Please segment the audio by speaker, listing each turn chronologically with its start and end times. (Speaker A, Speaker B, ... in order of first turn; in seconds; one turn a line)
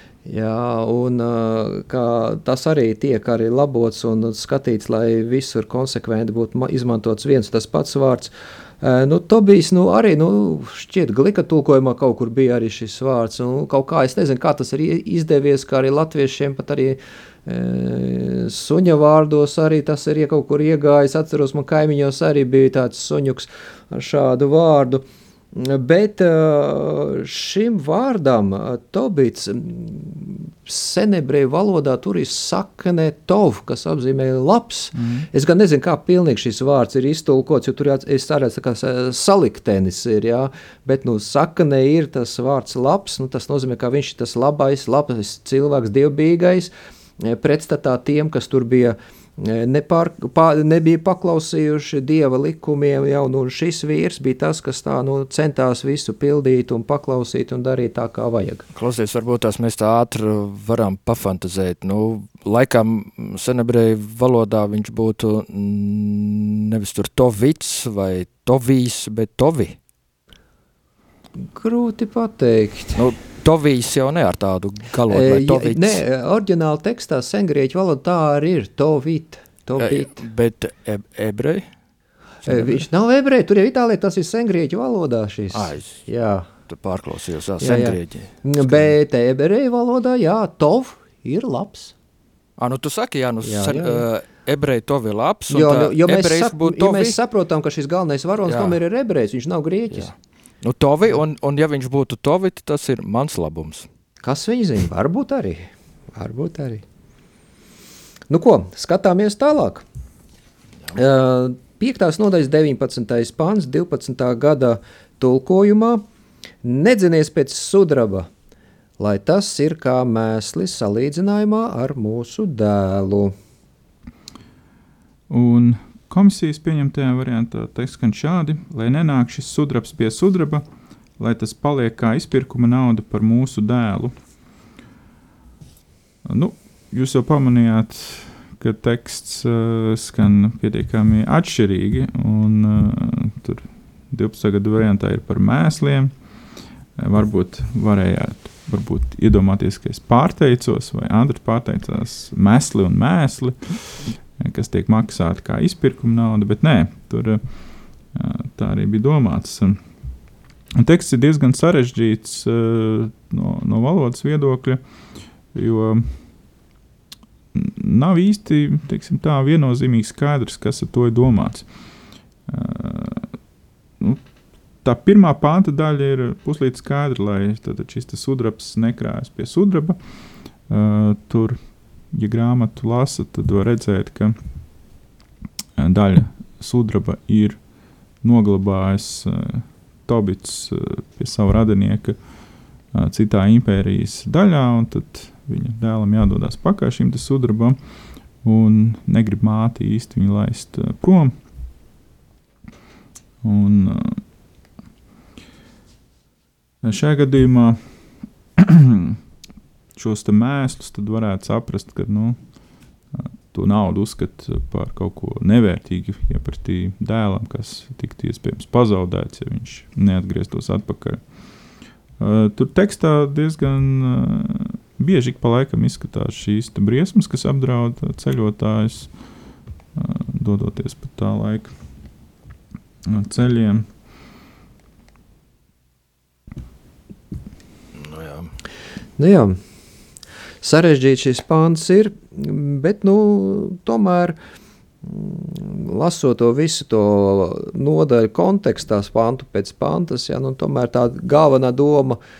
Speaker A: 0.2-58.6
Speaker B: 35.0-35.2
Speaker C: 58.7-69.8
Speaker A: 71.4-73.0
Speaker C: 72.9-76.0
Speaker A: 75.1-80.2
Speaker C: 79.8-81.7
Speaker C: 82.5-82.8
Speaker A: 82.5-86.5
Speaker C: 85.5-86.0
Speaker C: 86.7-88.9
Speaker A: 87.6-91.9
Speaker C: 92.6-97.2
Speaker A: 93.4-94.1
Speaker A: 95.5-100.1
Speaker C: 98.5-98.8
Speaker C: 99.9-103.9
Speaker A: 104.2-106.8
Speaker A: 108.3-109.8
Speaker A: 110.9-116.0
Speaker A: 116.6-118.3
Speaker A: 119.0-123.3
Speaker B: 125.3-130.6
Speaker B: 131.2-134.1
Speaker B: 136.2-146.1
Speaker B: 146.9-157.4
Speaker B: 158.1-159.8
Speaker B: 160.8-164.8
Speaker B: 165.5-166.2
Speaker B: 167.5-171.7
Speaker B: 172.5-173.3
Speaker B: 174.8-180.0
Speaker B: 180.7-181.6
Speaker B: 182.1-184.3
Speaker B: 185.8-187.6
Speaker B: 188.2-192.2
Speaker B: 192.9-197.8
Speaker B: 198.4-201.3
Speaker B: 203.4-204.2
Speaker B: 206.8-207.8
Speaker B: 208.6-209.2
Speaker B: 209.9-212.4
Speaker B: 213.1-221.2
Speaker B: 222.2-229.1
Speaker B: 229.9-231.7
Speaker B: 233.1-233.8
Speaker C: 238.0-238.5
Speaker A: 239.2-239.6
Speaker A: 240.6-244.4
Speaker A: 245.0-252.2